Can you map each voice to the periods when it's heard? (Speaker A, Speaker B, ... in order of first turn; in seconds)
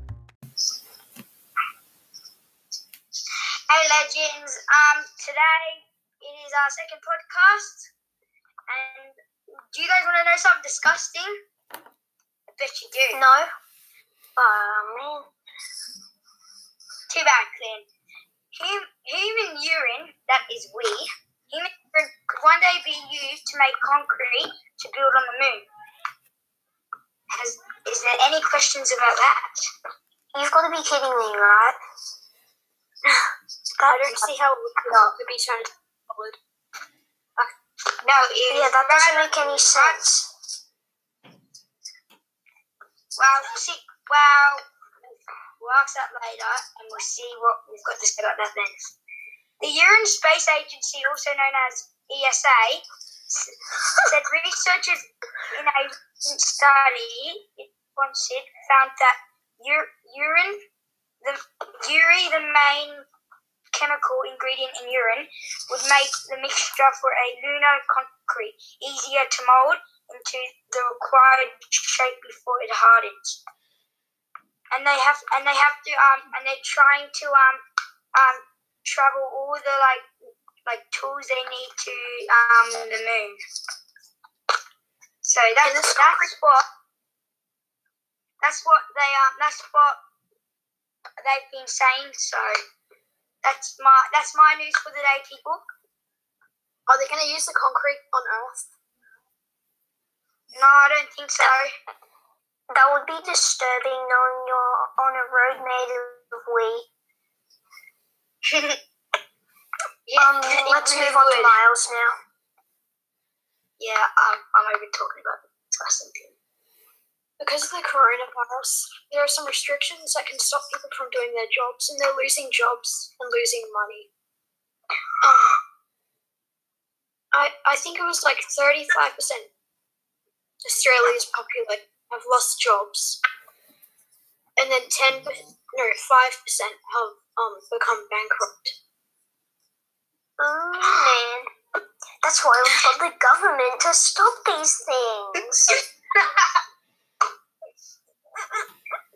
Speaker A: 3.7-7.9, 8.7-9.2, 9.7-11.4, 12.5-13.2, 17.1-17.9, 18.5-25.6, 27.3-29.6, 34.9-35.1, 38.0-40.0, 43.1-44.6, 45.6-48.8, 49.6-52.8, 54.1-60.6, 61.2-63.0, 63.7-73.4, 74.7-77.6, 78.1-80.1, 80.7-83.4, 85.2-86.6, 88.4-90.0, 91.2-92.6, 93.4-95.6, 100.5-101.7, 108.5-108.8, 110.0-111.5, 113.8-116.3, 146.2-146.5
Speaker B: 13.1-13.5, 14.4-15.3, 30.3-31.8, 33.8-34.1, 38.5-40.3, 102.7-106.8, 110.2-112.1, 140.4-141.5, 142.2-145.8
Speaker C: 33.9-36.4, 85.6-86.3, 96.9-98.6, 117.4-124.1, 125.2-125.6, 127.3-129.5, 130.6-133.2, 134.6-138.8